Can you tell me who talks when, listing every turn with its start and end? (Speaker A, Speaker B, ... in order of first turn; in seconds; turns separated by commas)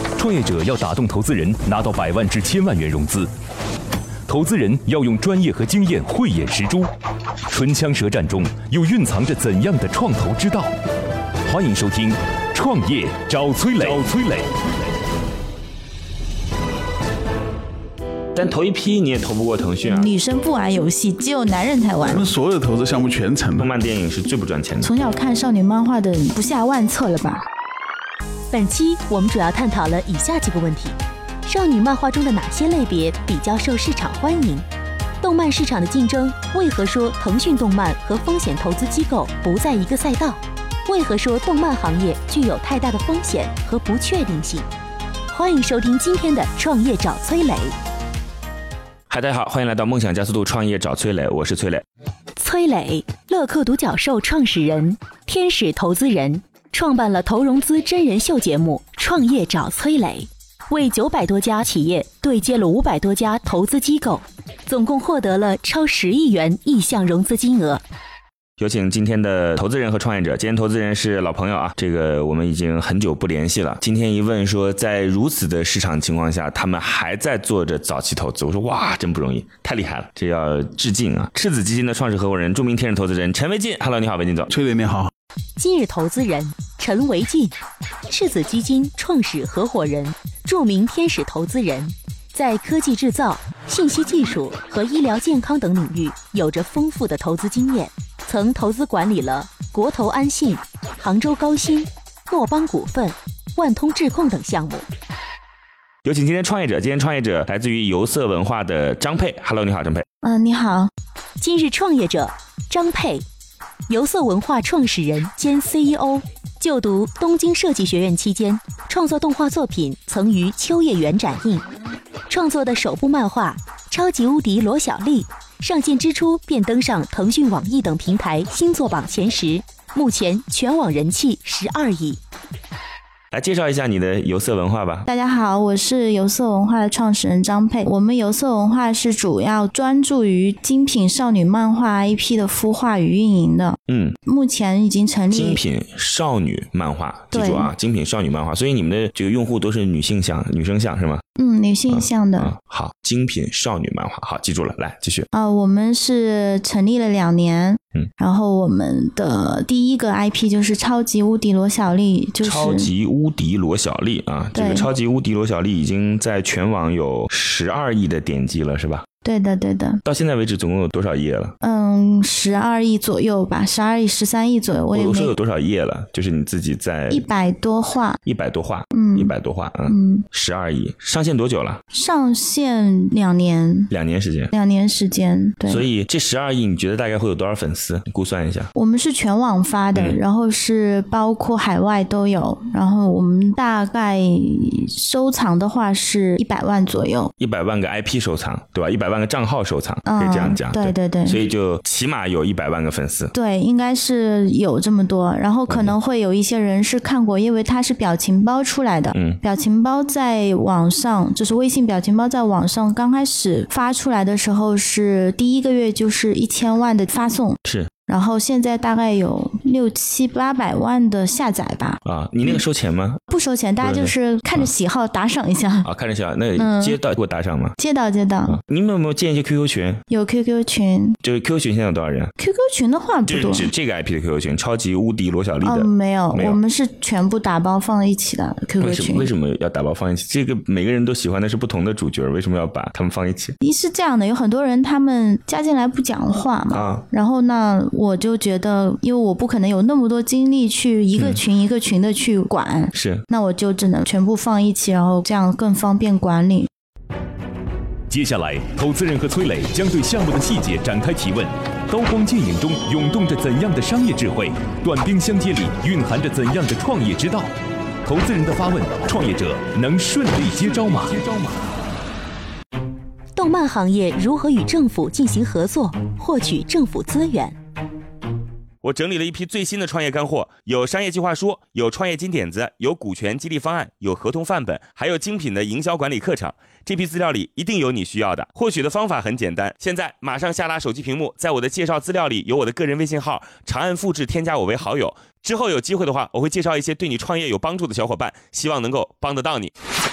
Speaker A: 0.2-3.3, Speaker A: 4.3-6.9, Speaker A: 7.5-10.7, Speaker A: 11.4-14.5, Speaker B: 18.4-20.1, Speaker C: 19.9-22.2, Speaker D: 22.0-23.7, Speaker B: 23.6-24.9, Speaker C: 24.8-27.4, Speaker E: 28.5-34.6, Speaker E: 35.2-44.7, Speaker E: 45.3-47.8, Speaker B: 49.1-51.8, Speaker E: 52.4-67.8, Speaker B: 68.6-84.5, Speaker D: 84.5-85.1, Speaker E: 85.6-104.9, Speaker B: 106.0-110.0, Speaker C: 110.2-110.9, Speaker E: 111.4-113.2, Speaker E: 113.9-121.6, Speaker E: 122.3-132.2, Speaker B: 133.3-135.1, Speaker C: 135.1-145.6, Speaker B: 143.9-144.2, Speaker B: 145.3-151.2, Speaker C: 147.3-147.7, Speaker C: 151.4-152.5, Speaker B: 151.9-155.3, Speaker C: 155.3-162.9, Speaker B: 162.4-169.1, Speaker C: 164.5-164.9, Speaker C: 169.2-170.0, Speaker B: 170.0-171.6, Speaker C: 171.6-175.3, Speaker B: 174.9-177.3, Speaker C: 177.1-178.2, Speaker B: 178.2-181.8, Speaker C: 178.9-179.3, Speaker C: 179.9-180.3, Speaker C: 181.9-183.9, Speaker B: 183.9-184.5, Speaker C: 184.5-185.9, Speaker B: 185.7-188.7, Speaker C: 188.8-197.3, Speaker B: 189.9-190.2, Speaker B: 197.4-203.3, Speaker C: 200.1-201.4, Speaker C: 203.3-222.6, Speaker B: 205.7-206.0, Speaker B: 209.1-209.4, Speaker B: 217.6-217.9, Speaker B: 222.0-223.2, Speaker C: 223.3-225.9, Speaker B: 223.8-224.7, Speaker B: 225.8-227.8, Speaker C: 226.6-227.0, Speaker C: 227.8-228.6, Speaker B: 228.5-230.0, Speaker C: 230.1-231.2, Speaker B: 231.2-232.3, Speaker C: 232.4-233.7, Speaker B: 233.2-236.6, Speaker C: 235.6-239.3, Speaker B: 238.8-243.6, Speaker C: 243.6-256.7, Speaker B: 246.7-247.1, Speaker B: 251.2-251.4, Speaker B: 252.9-253.2, Speaker A: 258.1-267.5, Speaker A: 268.1-271.3, Speaker E: 273.4-277.6, Speaker B: 278.8-299.7